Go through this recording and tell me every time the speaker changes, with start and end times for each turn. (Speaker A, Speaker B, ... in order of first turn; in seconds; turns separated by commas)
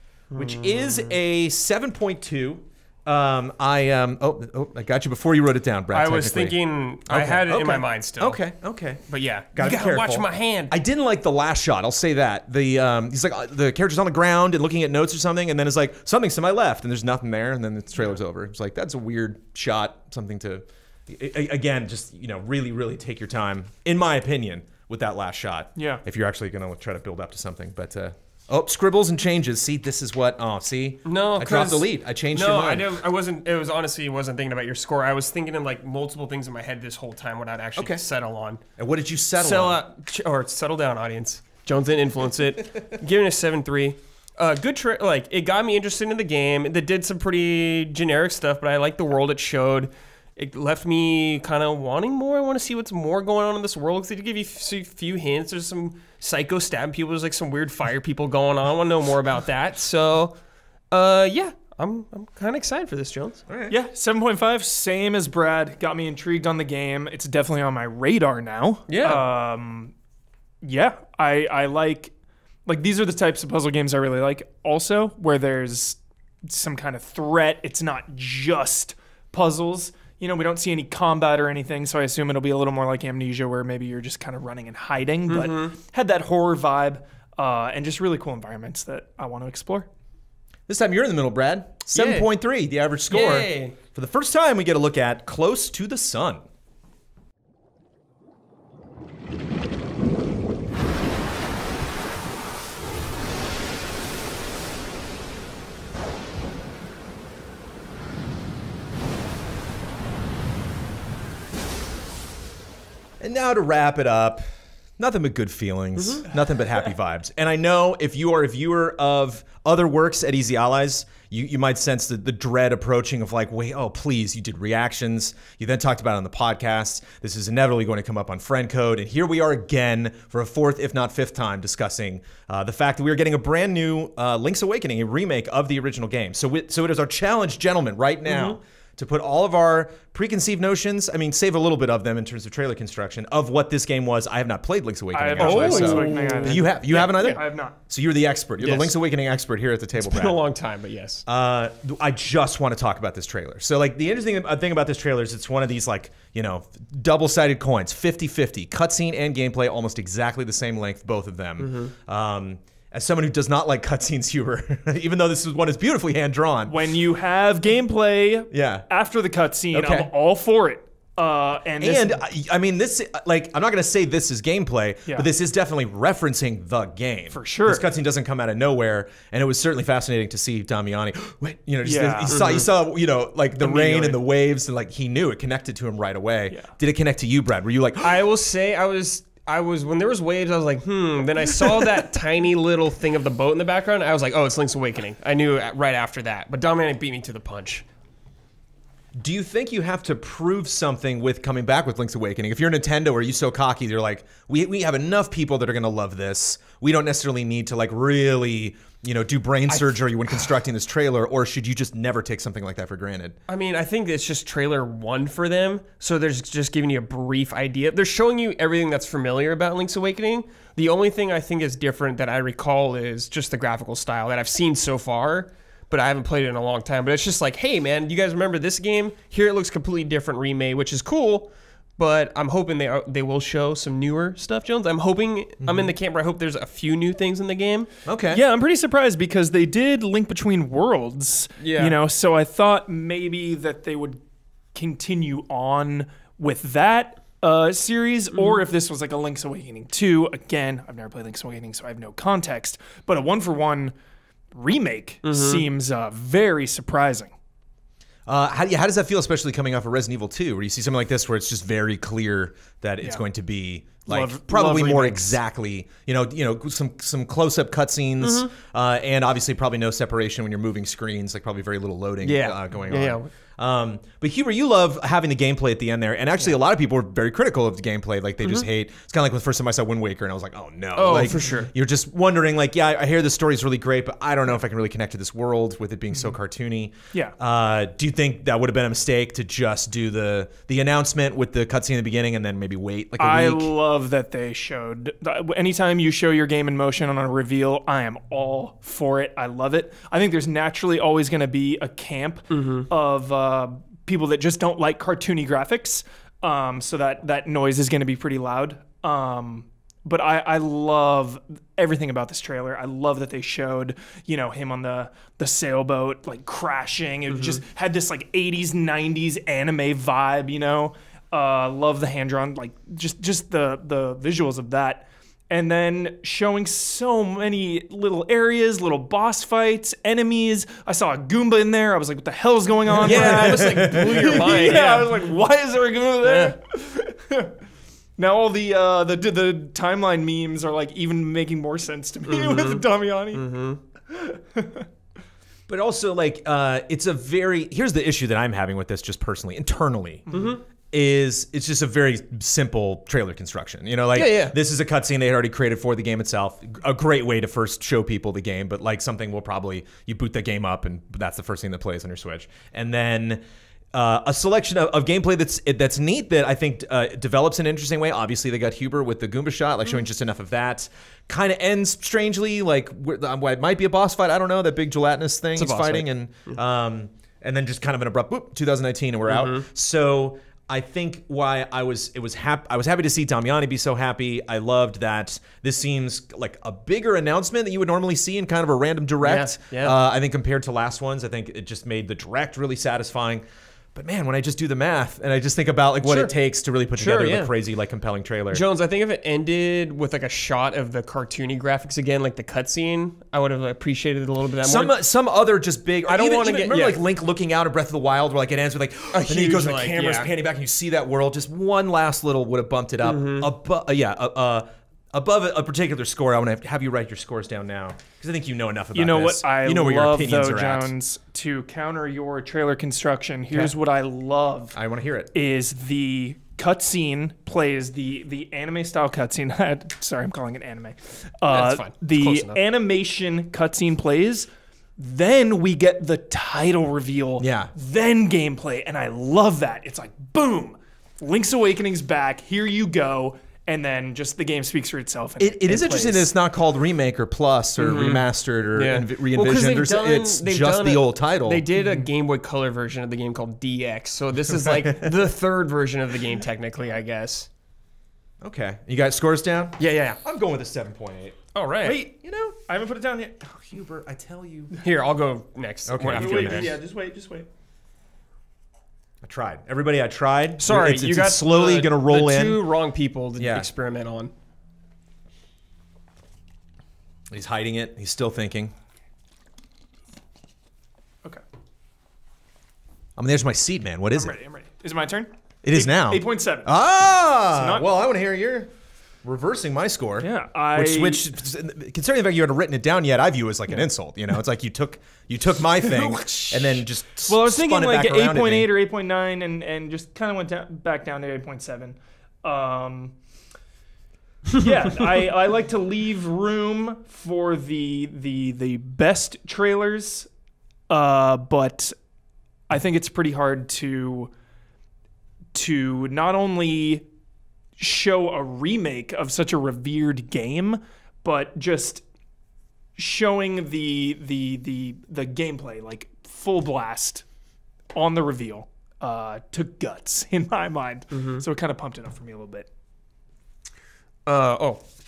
Speaker A: 0.3-9.0, Speaker B: 0.3-1.1, Speaker B: 5.9-8.4, Speaker B: 9.1-10.8, Speaker A: 9.5-33.0, Speaker C: 25.8-26.0, Speaker B: 31.1-38.6, Speaker A: 37.8-38.0, Speaker A: 38.8-39.8, Speaker B: 39.4-60.4, Speaker B: 60.9-63.4, Speaker A: 63.5-63.8, Speaker C: 63.7-69.9, Speaker B: 68.9-69.2, Speaker C: 70.6-72.1, Speaker C: 72.7-89.9, Speaker B: 85.3-85.7, Speaker A: 90.7-96.4, Speaker B: 91.9-92.3, Speaker B: 93.1-93.8, Speaker A: 113.2-114.4, Speaker A: 115.0-150.4, Speaker B: 116.0-116.3, Speaker B: 138.3-138.6, Speaker C: 145.1-147.7, Speaker B: 145.3-147.4, Speaker B: 148.6-148.9, Speaker B: 150.0-151.2, Speaker A: 151.3-166.8, Speaker B: 161.6-161.9, Speaker C: 166.7-172.2, Speaker A: 168.5-168.8, Speaker A: 169.7-170.1, Speaker A: 171.8-188.2, Speaker C: 177.3-177.8, Speaker C: 181.8-182.4, Speaker B: 182.3-182.7, Speaker C: 183.6-184.2, Speaker B: 188.0-197.8, Speaker A: 199.2-213.3, Speaker B: 209.7-210.5, Speaker B: 213.5-237.9, Speaker A: 235.6-235.9, Speaker A: 238.1-238.4, Speaker C: 238.3-244.2, Speaker B: 241.6-242.0, Speaker C: 244.7-253.9, Speaker C: 254.5-257.3, Speaker B: 255.2-255.6, Speaker A: 258.2-293.7, Speaker C: 264.1-265.4, Speaker B: 268.2-268.5, Speaker B: 272.2-273.3, Speaker B: 280.9-281.7, Speaker C: 293.2-337.5, Speaker B: 302.5-302.9, Speaker B: 317.3-317.6, Speaker B: 333.0-335.2, Speaker A: 333.0-334.8, Speaker B: 336.2-336.5, Speaker C: 338.2-343.4, Speaker B: 342.3-343.8, Speaker C: 344.1-344.9, Speaker A: 345.7-350.3, Speaker B: 350.3-350.6, Speaker A: 350.9-363.4, Speaker B: 354.1-354.5, Speaker A: 363.9-393.4, Speaker B: 375.6-376.6, Speaker B: 379.3-379.6, Speaker B: 389.2-390.0, Speaker A: 393.9-398.6, Speaker B: 396.0-396.3, Speaker B: 397.0-397.5, Speaker B: 398.5-404.9, Speaker A: 404.6-420.9, Speaker B: 406.0-407.0, Speaker B: 409.1-410.3, Speaker B: 413.0-413.5, Speaker C: 418.9-424.8, Speaker A: 424.7-425.3, Speaker C: 425.3-446.3, Speaker B: 431.5-432.6, Speaker A: 437.4-437.7, Speaker A: 445.4-451.7, Speaker B: 447.8-457.5, Speaker C: 451.8-452.0, Speaker A: 454.7-455.1, Speaker A: 458.4-461.4, Speaker B: 459.8-460.2, Speaker B: 461.5-462.0, Speaker C: 461.8-463.6, Speaker A: 462.2-462.6, Speaker A: 463.6-464.7, Speaker B: 464.8-466.8, Speaker A: 465.9-466.8, Speaker C: 466.1-467.5, Speaker A: 469.2-472.6, Speaker B: 470.6-474.3, Speaker A: 473.4-473.7, Speaker A: 477.3-478.7, Speaker A: 483.2-484.4, Speaker C: 484.1-486.7, Speaker A: 485.6-488.7, Speaker C: 487.5-487.9, Speaker A: 489.2-498.7, Speaker C: 490.2-491.2, Speaker C: 495.8-503.1, Speaker C: 504.5-510.3, Speaker C: 510.9-511.9, Speaker C: 512.7-514.3, Speaker C: 515.5-517.0, Speaker C: 517.8-522.0, Speaker C: 523.0-527.2, Speaker C: 527.9-532.7, Speaker B: 531.1-531.4, Speaker B: 534.2-534.8